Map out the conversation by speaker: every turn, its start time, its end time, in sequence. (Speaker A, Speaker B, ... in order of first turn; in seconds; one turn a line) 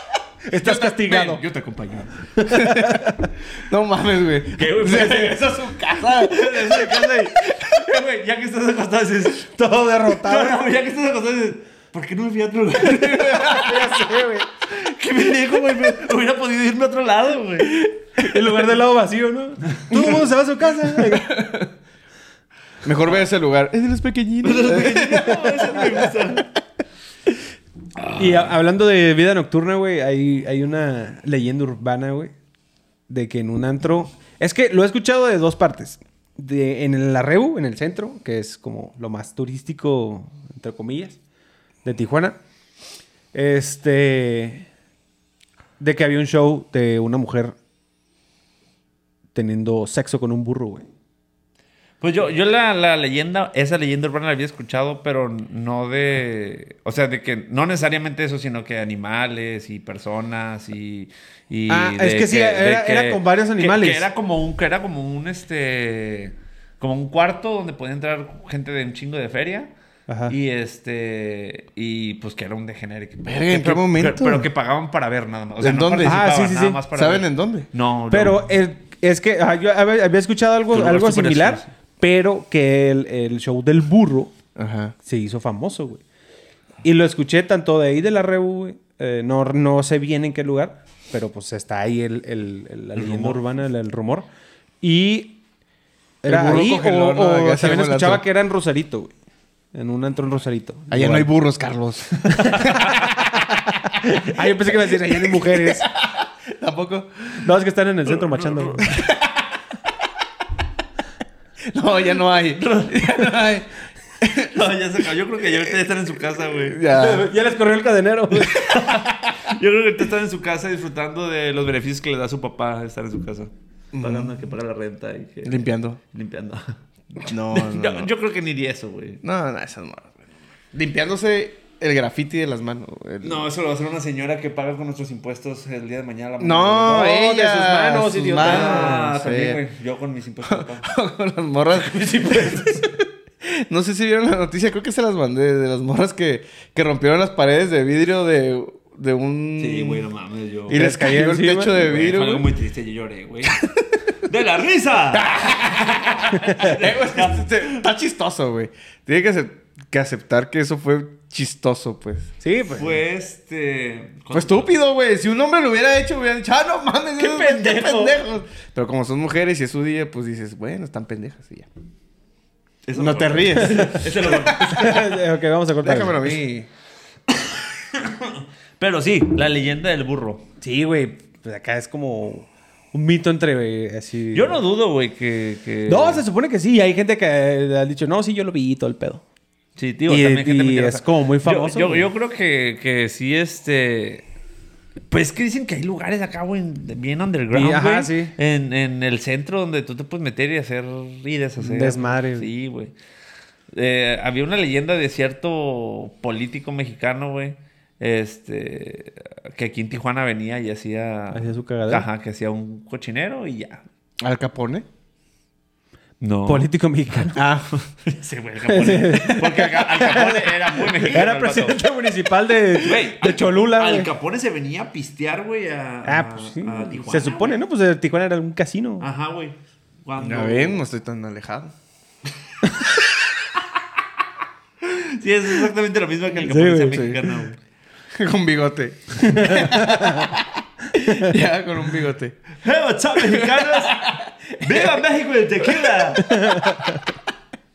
Speaker A: 0.5-1.4
Speaker B: 0.6-7.5
Speaker A: 2.4-3.3
Speaker C: 4.5-9.5
Speaker A: 9.4-10.6
Speaker C: 10.1-13.7
Speaker B: 12.8-13.8
Speaker A: 13.3-14.5
Speaker C: 14.7-17.8
Speaker A: 18.2-21.4
Speaker B: 20.9-21.7
Speaker B: 22.8-26.1
Speaker C: 24.4-26.5
Speaker C: 28.0-28.5
Speaker A: 28.1-32.3
Speaker A: 33.1-41.2
Speaker A: 41.9-42.4
Speaker A: 43.3-44.7
Speaker A: 45.8-47.5
Speaker A: 49.3-50.9
Speaker C: 52.0-69.7
Speaker A: 61.7-64.1
Speaker A: 70.1-70.3
Speaker C: 70.3-78.4
Speaker B: 73.2-74.5
Speaker B: 75.6-76.3
Speaker A: 76.0-76.8
Speaker B: 76.9-77.7
Speaker A: 78.1-84.3
Speaker C: 80.7-81.7
Speaker B: 84.6-84.9
Speaker A: 85.0-86.0
Speaker A: 86.8-94.3
Speaker C: 93.0-93.4
Speaker A: 94.8-95.4
Speaker A: 96.2-99.1
Speaker B: 96.2-98.2
Speaker A: 99.7-101.3
Speaker B: 100.9-102.9
Speaker A: 102.2-105.9
Speaker C: 102.7-103.0
Speaker B: 105.1-107.3
Speaker A: 107.4-109.0
Speaker C: 108.2-109.0
Speaker B: 108.9-109.3
Speaker B: 111.7-113.7
Speaker C: 112.6-113.3
Speaker B: 114.2-114.5
Speaker C: 114.4-116.8
Speaker B: 116.6-117.3
Speaker A: 116.8-118.9
Speaker C: 118.5-129.2
Speaker B: 123.9-124.3
Speaker B: 125.5-126.0
Speaker B: 127.2-128.1
Speaker B: 129.2-130.2
Speaker B: 130.7-133.5
Speaker C: 133.2-137.1
Speaker B: 136.4-139.6
Speaker A: 136.9-139.1
Speaker C: 138.4-140.9
Speaker B: 140.5-150.1
Speaker A: 141.9-142.8
Speaker C: 149.6-150.9
Speaker B: 150.7-152.5
Speaker A: 150.7-151.8
Speaker C: 151.7-153.6
Speaker C: 154.2-157.8
Speaker B: 155.1-162.3
Speaker A: 162.4-163.0
Speaker C: 162.7-164.7
Speaker B: 164.3-171.7
Speaker C: 167.2-168.2
Speaker C: 172.9-175.1
Speaker B: 172.9-174.9
Speaker A: 173.6-174.0
Speaker A: 174.7-176.4
Speaker B: 175.8-176.7
Speaker C: 177.3-180.4
Speaker A: 180.6-184.6
Speaker C: 184.3-186.2
Speaker A: 185.9-189.2
Speaker C: 189.8-194.2
Speaker A: 190.1-192.1
Speaker C: 195.1-202.9
Speaker A: 197.5-198.3
Speaker A: 201.6-202.5
Speaker C: 203.7-213.8
Speaker A: 211.3-212.1
Speaker B: 214.2-214.9
Speaker C: 216.2-221.8
Speaker A: 216.5-217.4
Speaker B: 217.3-217.7
Speaker A: 218.7-224.1
Speaker C: 222.8-227.6
Speaker A: 226.1-229.1
Speaker C: 229.0-230.8
Speaker B: 230.2-231.7
Speaker C: 234.8-237.6
Speaker A: 236.3-237.2
Speaker B: 236.9-237.2
Speaker B: 238.1-242.4
Speaker A: 239.2-240.3
Speaker A: 241.1-241.3
Speaker C: 242.6-246.4
Speaker B: 243.2-244.2
Speaker A: 246.2-247.0